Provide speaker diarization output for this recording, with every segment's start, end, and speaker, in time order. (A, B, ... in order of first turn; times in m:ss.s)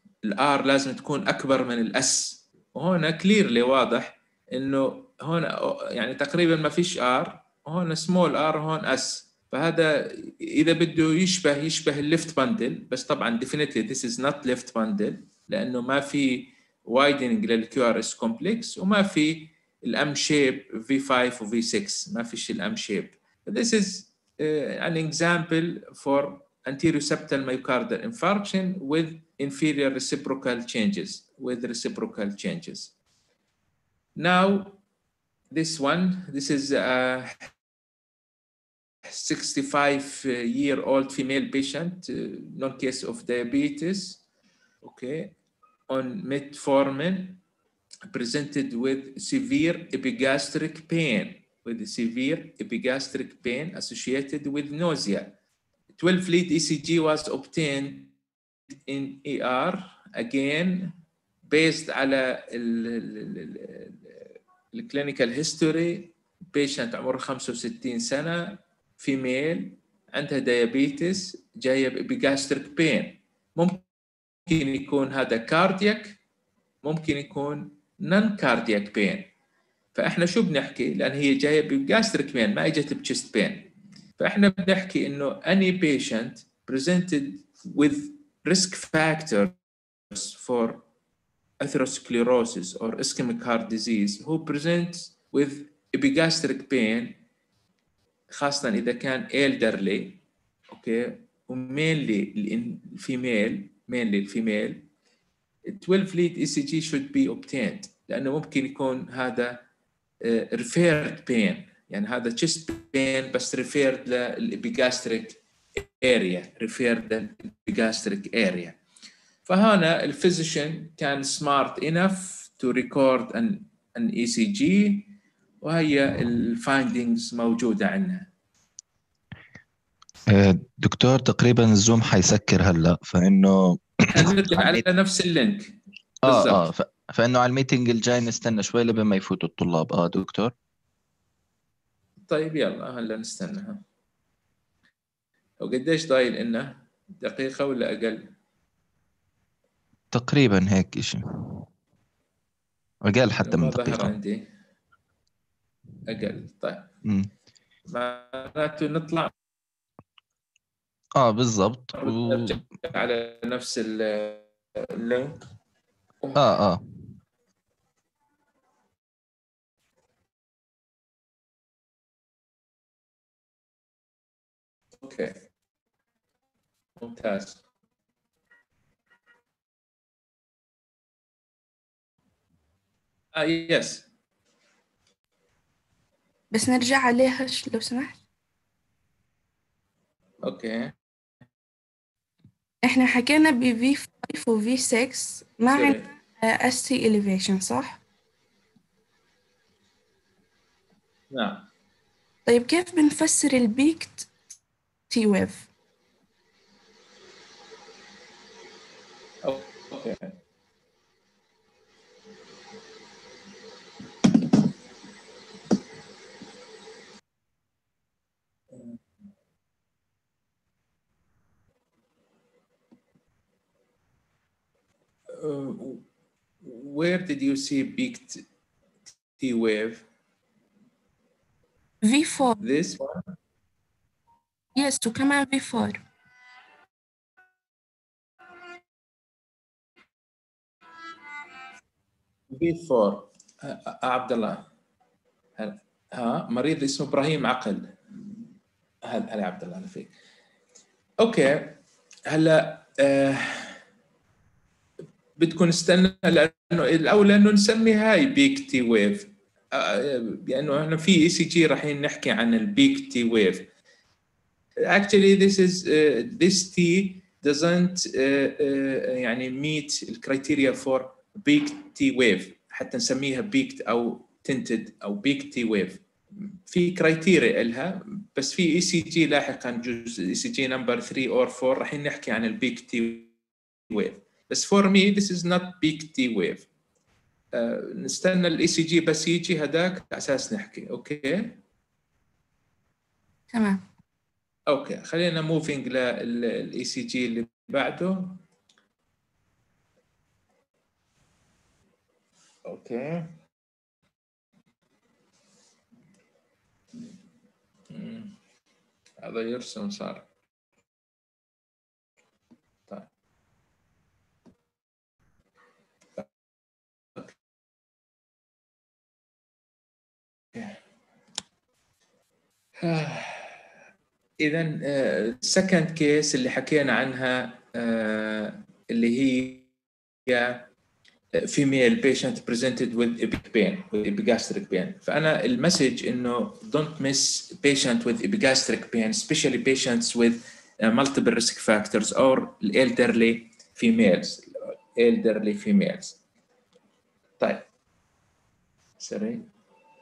0:00.2-0:32.9 A
0:34.2-0:34.8 A
0:35.5-0:37.5 A
0:39.1-0:44.2 A
0:44.8-0:45.3 A
0:45.9-0:47.4 A
0:48.1-0:55.3 A
0:56.0-0:58.1 A
0:58.9-1:00.9 A
1:01.5-1:04.2 A
1:04.7-1:13.8 A
1:14.4-1:16.2 A
1:16.8-1:19.3 A
1:19.9-1:29.5 A
1:30.1-1:30.8 A
1:31.6-1:37.2 A
1:38.3-1:40.2 A
1:40.7-1:44.8 A
1:45.6-1:49.6 A
1:50.2-1:58.8 A
1:59.4-2:08.3 A
2:10.3-2:14.9 B
2:14.1-2:16.7 A
2:16.2-2:20.5 B
2:22.3-2:23.8 A
2:25.6-2:28.3 A
2:30.1-2:31.2 B
2:33.0-2:34.2 B
2:33.4-2:34.5 A
2:36.0-2:36.9 A
2:37.0-2:37.3 B
2:37.9-2:39.3 A
2:41.2-2:42.6 B
2:41.9-2:45.4 A
2:46.3-2:46.8 B
2:55.0-2:55.4 A
2:57.0-2:57.6 A
3:03.3-3:04.0 A
3:06.5-3:08.2 C
3:10.4-3:10.9 A
3:12.8-3:18.0 C
3:15.7-3:16.1 A
3:21.3-3:21.6 A
3:22.4-3:24.3 C
3:25.1-3:25.7 C
3:29.4-3:30.3 A
3:45.3-3:46.0 A
3:46.6-3:48.4 A
3:49.4-3:50.0 A
3:52.0-3:52.6 C
3:52.6-3:53.1 A
3:54.7-3:56.0 C
4:02.5-4:04.6 A
4:05.6-4:07.9 A
4:09.0-4:10.1 A
4:11.2-4:11.8 A
4:12.3-4:13.8 A
4:15.4-4:23.7 A
4:24.9-4:36.0 A
4:36.6-4:43.3 A
4:43.9-4:46.7 A
4:47.5-4:51.6 A
4:53.5-4:53.8 C
4:54.7-4:58.4 A
5:02.6-5:03.3 A
5:07.9-5:08.3 A
5:09.2-5:10.2 A
5:22.8-5:23.6 A
5:24.4-5:29.7 A
5:30.3-5:30.6 A
5:31.4-5:46.2 A
5:47.4-5:47.6 A
5:49.0-5:49.4 A